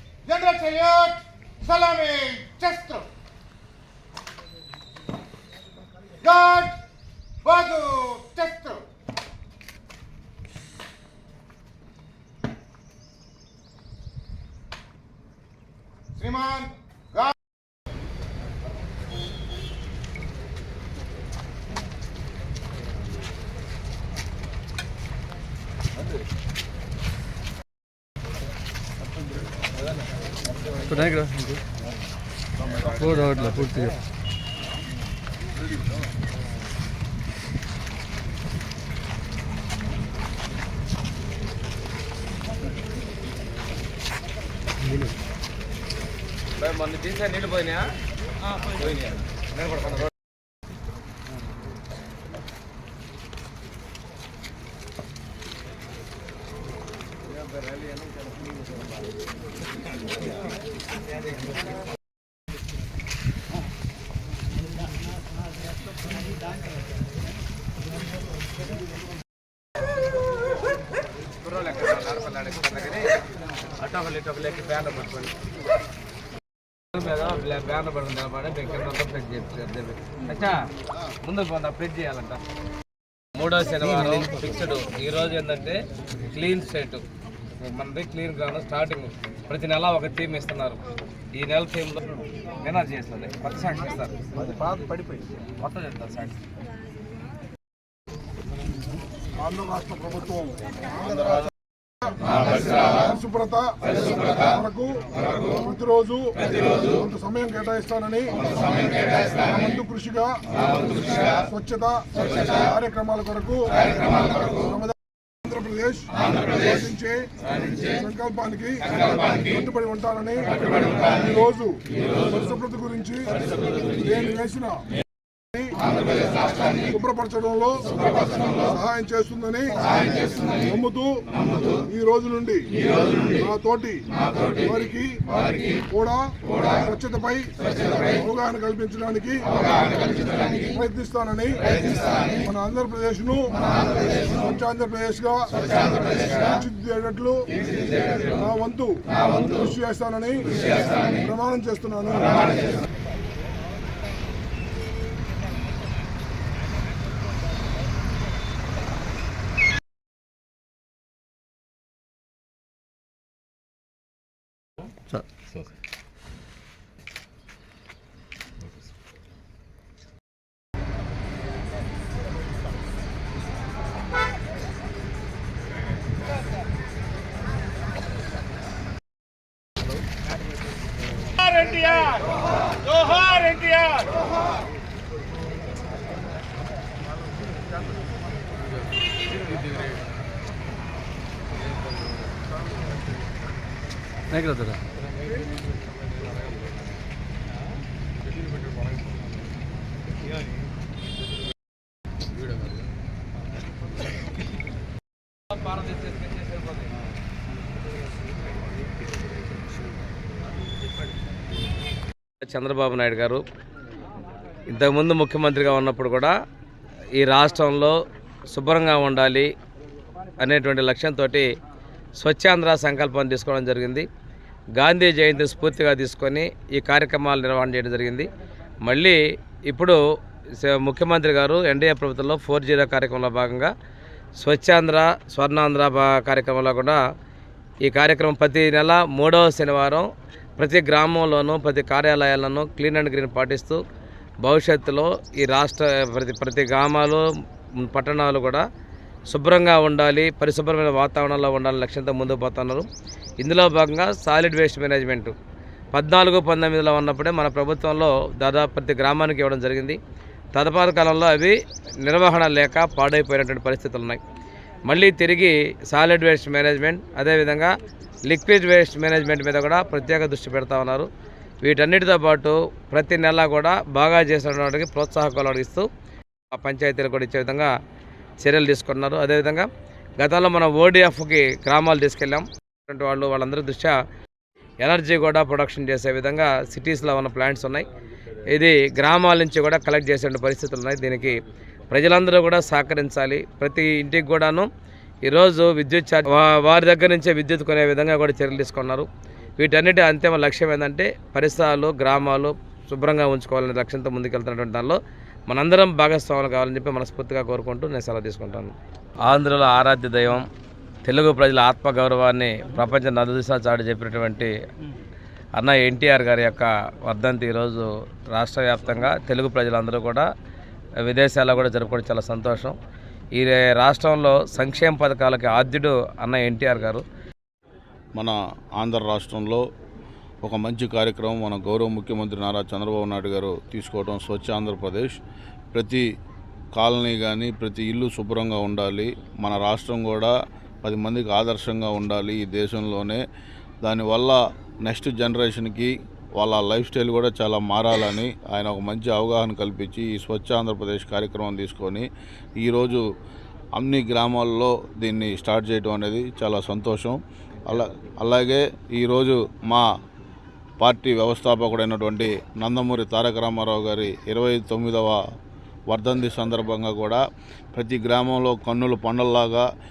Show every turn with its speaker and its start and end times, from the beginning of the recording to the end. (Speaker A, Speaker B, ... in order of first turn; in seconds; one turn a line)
Speaker A: 0.2-3.0
Speaker B: 0.3-1.0
Speaker B: 1.7-3.0
Speaker A: 6.2-6.8
Speaker B: 6.2-6.6
Speaker A: 7.4-8.8
Speaker B: 7.5-8.3
Speaker A: 16.2-17.3
Speaker B: 30.8-31.6
Speaker B: 32.8-34.0
Speaker C: 46.5-47.9
Speaker C: 48.6-50.1
Speaker C: 71.4-73.2
Speaker C: 73.8-75.3
Speaker C: 76.9-80.7
Speaker C: 81.2-82.4
Speaker C: 83.3-87.0
Speaker C: 87.6-90.8
Speaker C: 91.3-94.1
Speaker C: 95.6-96.4
Speaker D: 99.4-101.5
Speaker D: 102.0-108.5
Speaker D: 109.4-110.4
Speaker D: 111.3-117.3
Speaker D: 117.8-123.4
Speaker D: 123.9-124.9
Speaker D: 125.5-125.9
Speaker D: 126.6-130.0
Speaker D: 130.5-139.9
Speaker D: 140.6-141.8
Speaker D: 142.3-143.6
Speaker D: 144.2-152.5
Speaker C: 181.6-182.1
Speaker C: 183.1-183.9
Speaker B: 194.3-194.8
Speaker C: 205.8-206.3
Speaker C: 212.4-213.4
Speaker C: 214.7-216.4
Speaker C: 217.2-218.0
Speaker C: 218.5-219.5
Speaker C: 220.4-221.5
Speaker C: 222.2-224.1
Speaker C: 224.7-228.3
Speaker C: 228.8-230.0
Speaker C: 230.5-233.7
Speaker C: 234.3-237.0
Speaker C: 237.8-243.8
Speaker C: 244.4-248.7
Speaker C: 249.3-252.9
Speaker C: 253.4-255.3
Speaker C: 255.9-260.0
Speaker C: 260.5-264.2
Speaker C: 264.8-267.7
Speaker C: 268.3-271.1
Speaker C: 271.6-275.9
Speaker C: 276.5-277.7
Speaker C: 278.4-279.7
Speaker C: 280.2-283.9
Speaker C: 284.8-287.9
Speaker C: 288.5-291.4
Speaker C: 291.9-294.7
Speaker C: 295.2-299.1
Speaker C: 299.6-310.4
Speaker C: 311.0-314.5
Speaker C: 315.6-320.3
Speaker C: 321.0-322.7
Speaker C: 323.3-327.0
Speaker E: 328.1-329.6
Speaker E: 330.4-335.2
Speaker E: 335.7-336.1
Speaker E: 336.7-343.2
Speaker E: 343.8-352.1
Speaker E: 352.6-353.0
Speaker E: 353.7-359.9
Speaker E: 360.8-365.2
Speaker E: 365.9-367.2
Speaker E: 367.7-369.7